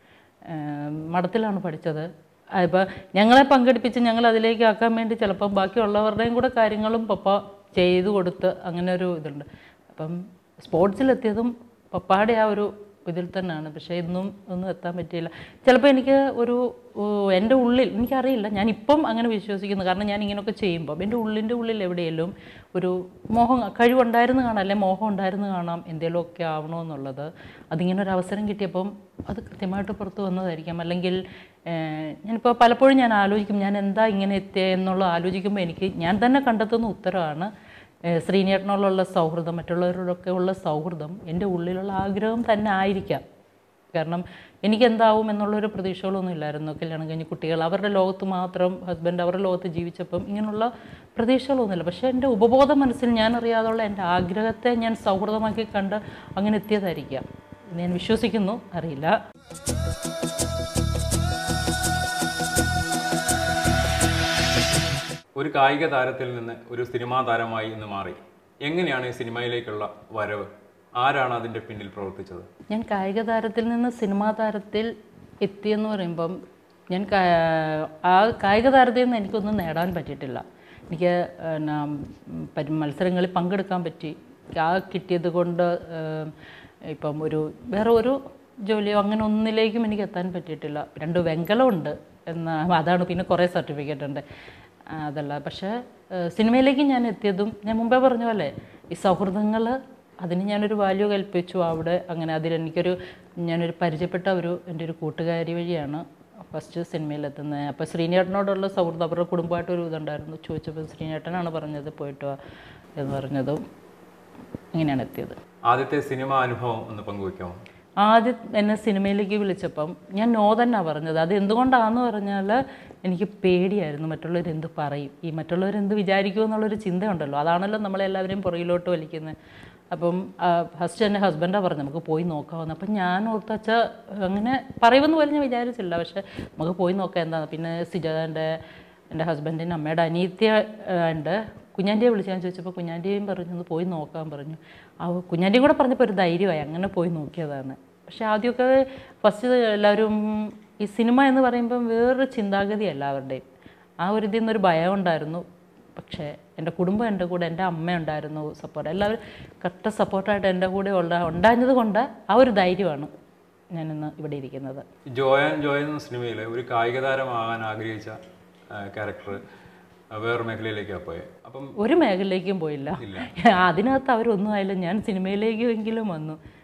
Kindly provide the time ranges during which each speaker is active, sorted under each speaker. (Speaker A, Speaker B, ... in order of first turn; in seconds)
Speaker A: 0.5-37.5, 38.1-43.2, 43.9-59.2, 72.7-74.9, 75.4-76.4, 76.9-86.3, 86.9-94.2, 94.9-112.4, 113.0-113.6, 114.7-115.3, 118.0-129.3, 129.9-138.6, 139.1-153.4, 154.0-155.4, 156.0-163.1, 163.7-164.8, 171.8-176.4
Speaker B: 65.4-72.5, 115.7-117.6, 165.1-168.2, 168.7-169.4, 170.1-171.8, 173.0-173.3